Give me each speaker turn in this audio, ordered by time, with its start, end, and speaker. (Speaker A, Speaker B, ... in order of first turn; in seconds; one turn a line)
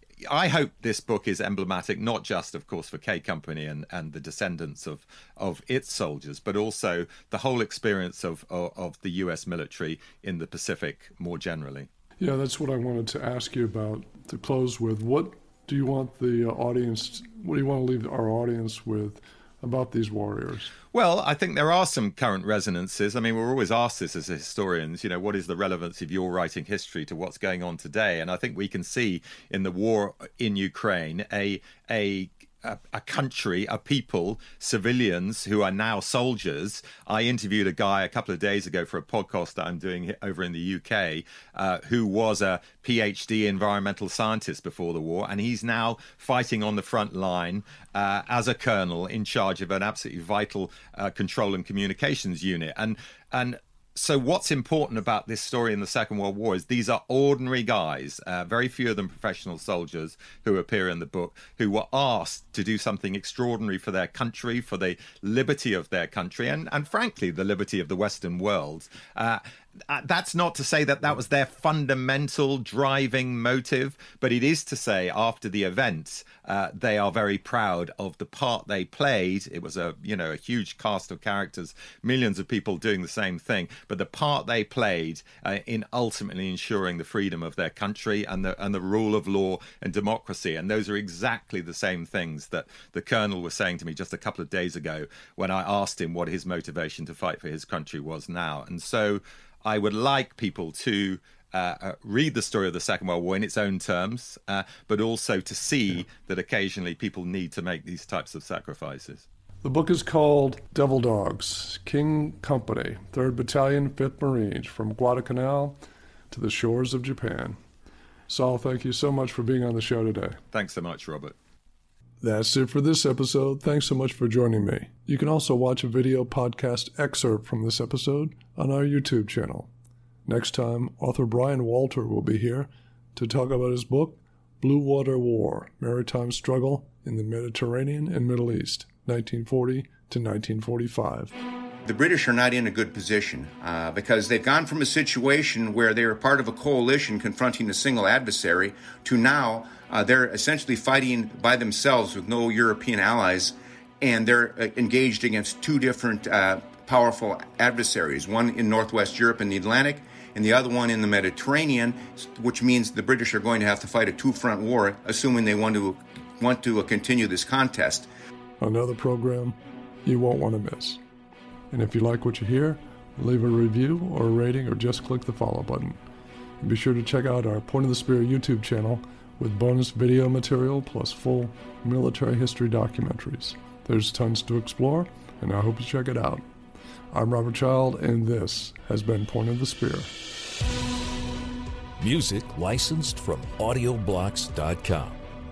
Speaker A: 0.2-11.9
Speaker B: 12.2-20.7
Speaker A: 20.9-109.2
Speaker B: 109.6-115.8
Speaker B: 116.3-117.6
Speaker B: 118.3-120.4
Speaker A: 120.5-121.3
Speaker B: 122.2-129.7
Speaker B: 130.2-141.3
Speaker C: 141.8-168.1
Speaker B: 168.6-171.0
Speaker B: 171.7-176.0
Speaker B: 176.6-186.4
Speaker B: 187.1-190.1
Speaker D: 192.0-195.2